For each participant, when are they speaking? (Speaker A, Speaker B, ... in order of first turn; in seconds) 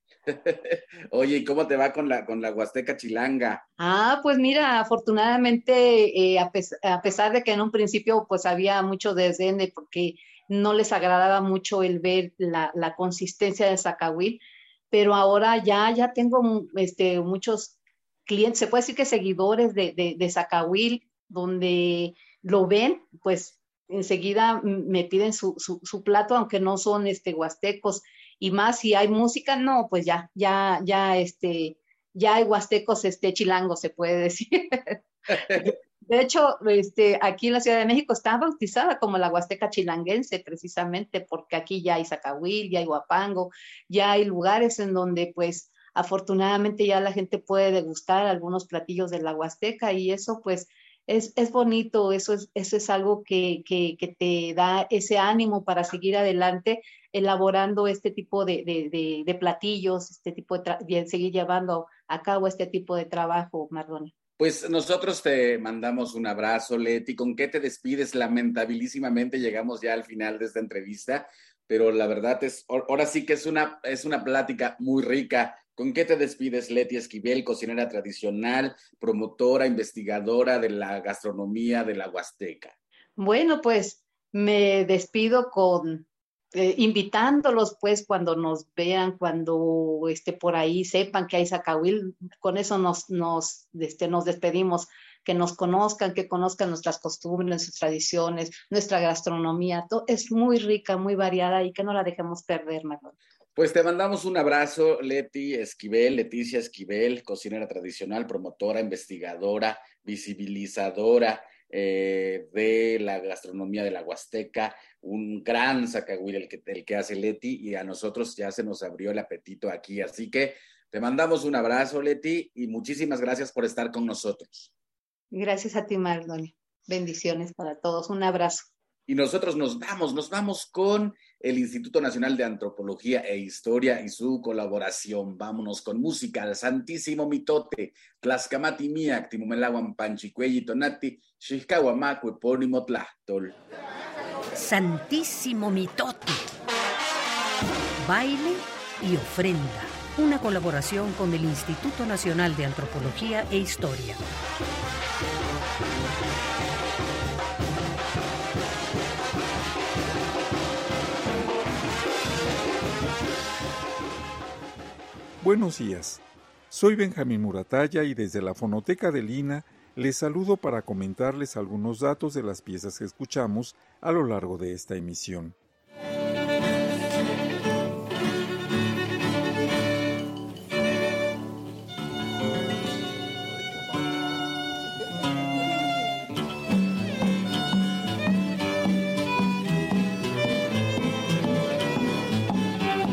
Speaker A: 0.3-3.6, 64.4-82.7, 103.5-124.7, 129.1-143.6
Speaker B: 3.8-64.1, 83.2-103.1, 125.3-128.7
Speaker C: 144.5-146.4, 148.0-154.2
Speaker D: 165.4-175.5